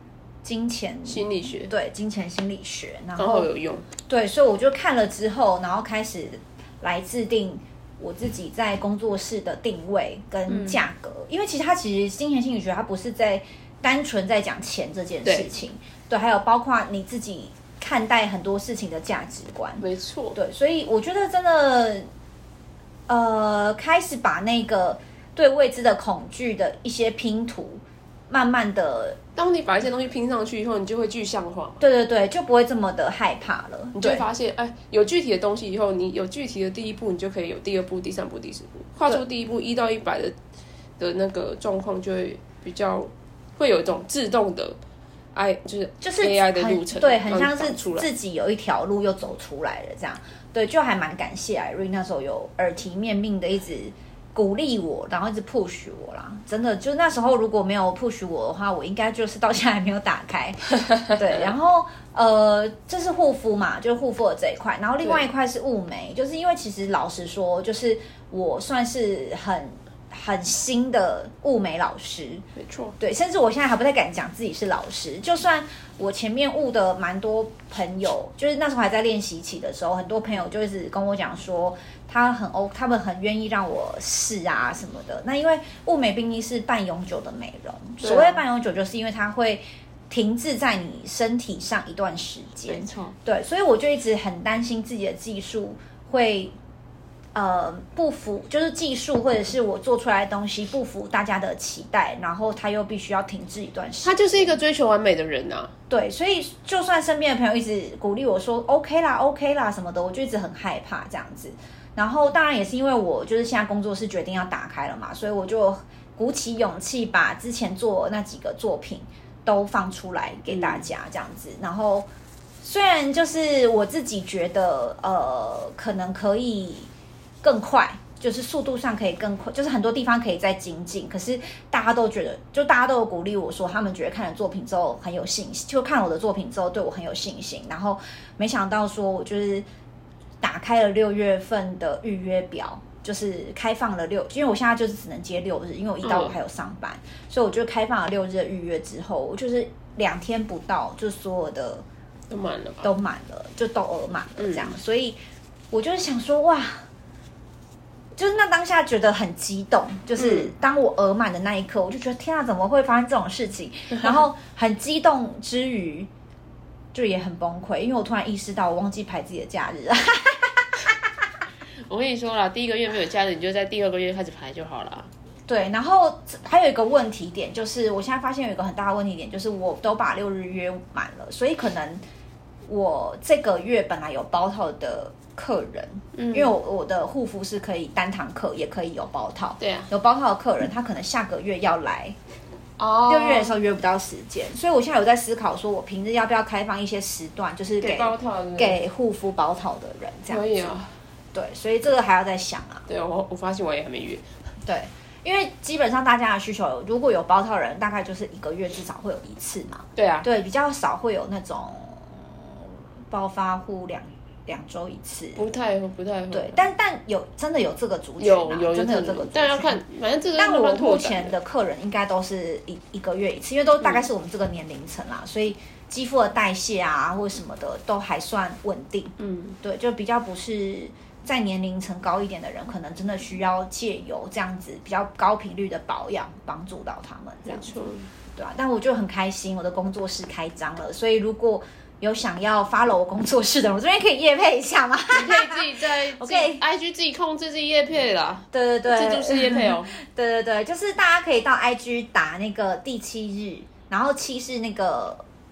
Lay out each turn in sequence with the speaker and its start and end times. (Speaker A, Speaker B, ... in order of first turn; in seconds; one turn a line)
Speaker A: 0.4-3.5
Speaker B: 1.1-1.7
Speaker B: 3.2-3.9
Speaker A: 4.1-22.1
Speaker B: 10.5-10.8
Speaker B: 19.8-20.4
Speaker A: 23.1-29.2
Speaker B: 29.4-31.8
Speaker A: 31.8-34.2
Speaker B: 34.0-40.4
Speaker B: 41.0-44.8
Speaker B: 45.3-48.1
Speaker A: 46.0-72.5
Speaker B: 72.6-73.0
Speaker A: 73.0-96.6
Speaker B: 88.0-88.4
Speaker B: 92.7-93.2
Speaker A: 97.3-104.6
Speaker B: 104.0-105.7
Speaker A: 105.9-122.1
Speaker B: 120.5-120.9
Speaker A: 122.6-126.9
Speaker A: 127.4-139.7
Speaker A: 140.4-151.8
Speaker B: 146.0-146.4
Speaker B: 152.3-152.9
Speaker A: 152.8-155.2
Speaker B: 154.4-154.7
Speaker A: 155.7-156.9
Speaker A: 158.2-166.1
Speaker B: 160.2-160.5
Speaker A: 166.9-170.9
Speaker B: 171.9-175.1
Speaker A: 175.5-182.0
Speaker A: 182.7-192.2
Speaker B: 186.2-186.6
Speaker B: 189.6-189.9
Speaker B: 192.8-193.5
Speaker A: 193.1-200.7
Speaker B: 197.8-198.8
Speaker B: 200.3-201.0
Speaker A: 201.3-202.9
Speaker B: 202.9-204.2
Speaker A: 204.7-215.4
Speaker B: 210.0-210.3
Speaker B: 215.4-216.6
Speaker A: 216.3-219.8
Speaker B: 218.2-221.4
Speaker A: 220.4-246.6
Speaker B: 229.2-229.6
Speaker B: 237.4-238.1
Speaker B: 245.1-250.0
Speaker A: 248.5-255.2